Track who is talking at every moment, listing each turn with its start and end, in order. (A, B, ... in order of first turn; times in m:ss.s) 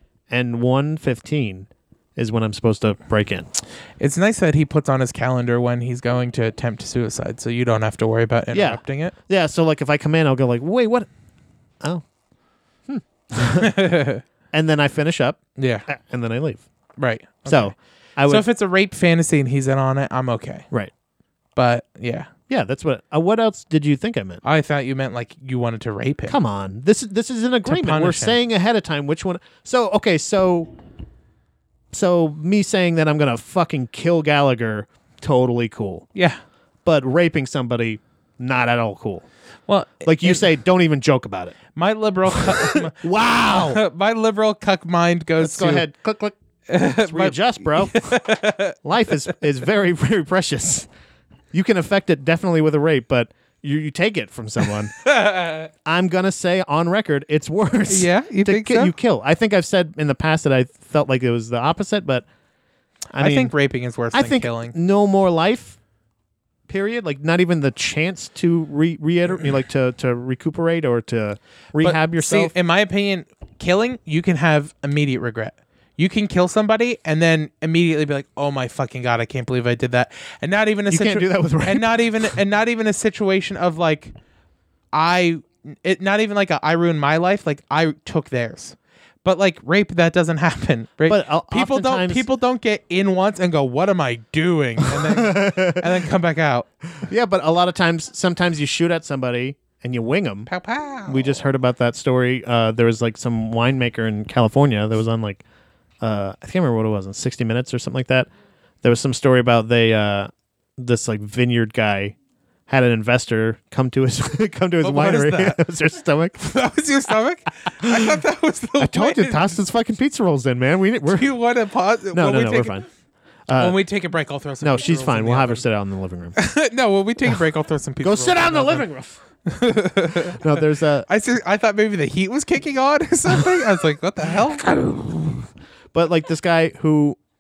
0:00.3-0:03.5 A
0:04.0-0:09.2 B
0:08.5-0:11.1 A
0:12.9-0:13.9 A
0:13.6-0:14.2 B
0:14.5-0:16.6 A
0:15.6-0:15.9 B
0:17.0-0:17.8 B
0:17.5-0:18.5 A
0:18.3-0:20.7 B
0:21.6-0:22.3 B
0:22.5-0:24.4 A
0:24.4-0:26.4 B
0:26.3-0:30.7 A
0:27.7-0:28.4 B
0:31.9-0:36.1 A
0:36.2-0:36.4 B
0:36.8-0:39.3 A
0:39.7-0:40.4 B
0:40.0-0:41.6 A
0:41.8-0:45.9 B
0:42.3-0:43.8 A
0:45.4-0:48.2 A
0:46.7-0:48.8 B
0:48.8-0:50.9 A
0:51.5-0:55.0 A
0:55.0-0:55.7 B
0:55.8-1:02.2 A
0:57.9-0:58.9 B
1:03.1-1:03.6 A
1:03.2-1:04.8 B
1:04.1-1:05.8 A
1:06.7-1:12.5 A
1:11.8-1:24.1 B
1:20.9-1:22.3 A
1:24.9-1:36.7 B
1:31.1-1:32.3 A
1:34.8-1:36.0 A
1:37.0-1:40.5 A
1:40.5-1:41.4 B
1:41.1-1:45.4 A
1:46.0-1:48.3 A
1:48.8-1:52.2 A
1:52.7-1:56.4 A
1:54.8-1:55.6 B
1:56.4-1:59.6 B
1:57.8-1:58.2 A
1:58.8-2:01.3 A
2:01.1-2:02.8 B
2:02.1-2:02.9 A
2:03.5-2:03.8 A
2:03.6-2:05.6 B
2:04.6-2:06.4 A
2:06.4-2:08.9 B
2:08.0-2:09.2 A
2:09.5-2:10.5 B
2:10.3-2:11.1 A
2:11.1-2:14.7 B
2:14.4-2:17.2 A